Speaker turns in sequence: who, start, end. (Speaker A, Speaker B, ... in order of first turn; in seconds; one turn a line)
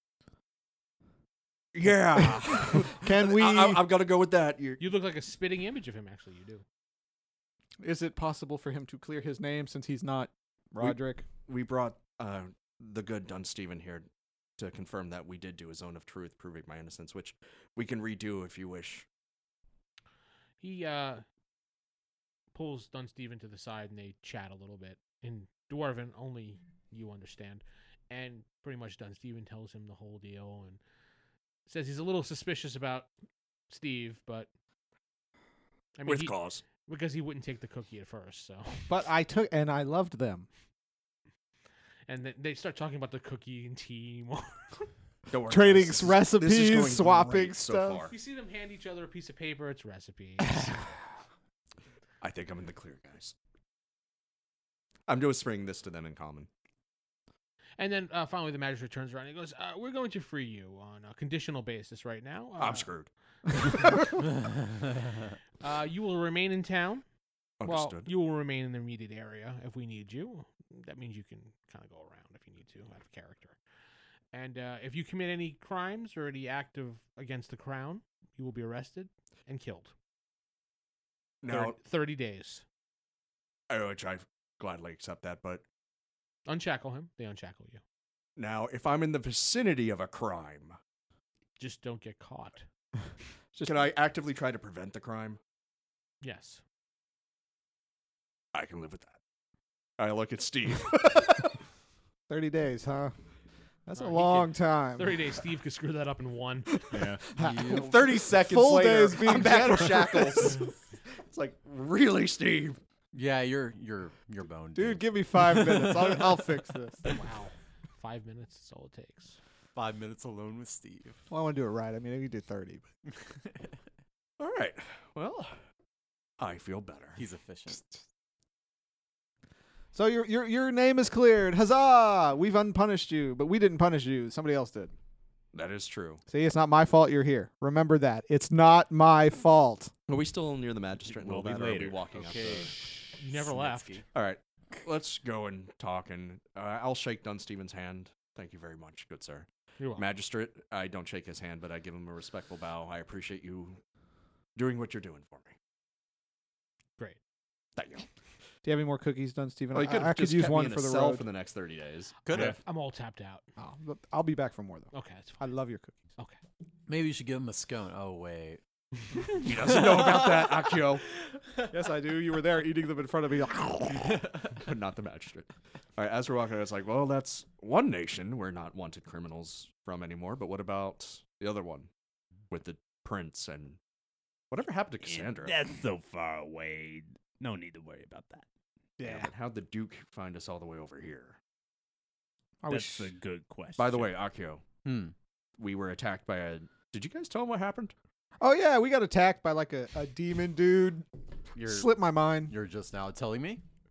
Speaker A: 1.7-4.8
Speaker B: 2.1-3.8
Speaker C: 4.8-6.6
Speaker B: 7.8-11.2
Speaker A: 10.8-14.1
Speaker A: 14.6-19.1
Speaker C: 20.6-21.2
Speaker C: 22.5-30.8
Speaker C: 31.7-33.1
Speaker C: 33.7-34.5
Speaker C: 36.0-38.9
Speaker A: 36.0-36.6
Speaker B: 38.9-40.5
Speaker C: 42.1-44.9
Speaker A: 45.3-48.1
Speaker B: 45.5-48.0
Speaker C: 48.1-50.9
Speaker A: 52.2-53.3
Speaker A: 55.1-56.5
Speaker C: 57.8-62.9
Speaker A: 62.6-64.1
Speaker C: 65.6-67.0
Speaker A: 67.6-68.1
Speaker C: 67.6-73.6
Speaker C: 74.3-79.9
Speaker A: 81.4-81.8
Speaker C: 81.5-82.6
Speaker A: 83.7-85.6
Speaker C: 86.5-87.8
Speaker A: 88.4-90.8
Speaker C: 91.6-92.7
Speaker B: 93.5-93.9
Speaker A: 93.6-95.4
Speaker C: 96.2-96.6
Speaker A: 98.5-99.1
Speaker A: 100.0-101.6
Speaker B: 102.3-103.1
Speaker B: 103.8-105.2
Speaker C: 103.9-106.8
Speaker B: 106.7-110.6
Speaker D: 106.9-107.3
Speaker E: 107.3-107.9
Speaker A: 107.7-112.8
Speaker E: 113.1-115.7
Speaker B: 114.8-117.1
Speaker C: 117.0-119.4
Speaker E: 119.7-121.2
Speaker B: 121.3-122.8
Speaker A: 124.4-125.5
Speaker A: 126.4-127.2
Speaker E: 127.2-127.8
Speaker B: 127.7-128.0
Speaker B: 129.9-134.9
Speaker A: 135.5-136.2
Speaker B: 136.3-139.9
Speaker A: 140.1-142.7
Speaker D: 141.0-142.1
Speaker E: 142.1-144.1
Speaker C: 143.2-144.0
Speaker A: 144.1-153.8
Speaker C: 149.8-150.1
Speaker A: 154.6-155.6
Speaker A: 157.8-158.1
Speaker B: 158.6-161.2
Speaker A: 159.7-162.6
Speaker E: 162.2-162.6
Speaker C: 162.3-163.4
Speaker B: 163.6-165.9
Speaker C: 164.9-165.4
Speaker E: 166.9-168.6
Speaker E: 169.3-170.7
Speaker A: 169.4-171.0
Speaker B: 171.7-174.3
Speaker A: 174.5-181.9
Speaker A: 182.5-183.8
Speaker A: 184.5-185.6
Speaker D: 185.0-188.4
Speaker B: 189.0-189.3
Speaker A: 189.0-191.4
Speaker B: 192.6-193.1
Speaker D: 192.7-194.1
Speaker A: 193.8-194.6
Speaker E: 194.8-195.1
Speaker A: 195.6-197.9
Speaker B: 198.4-201.1
Speaker E: 201.6-203.6
Speaker B: 201.6-202.5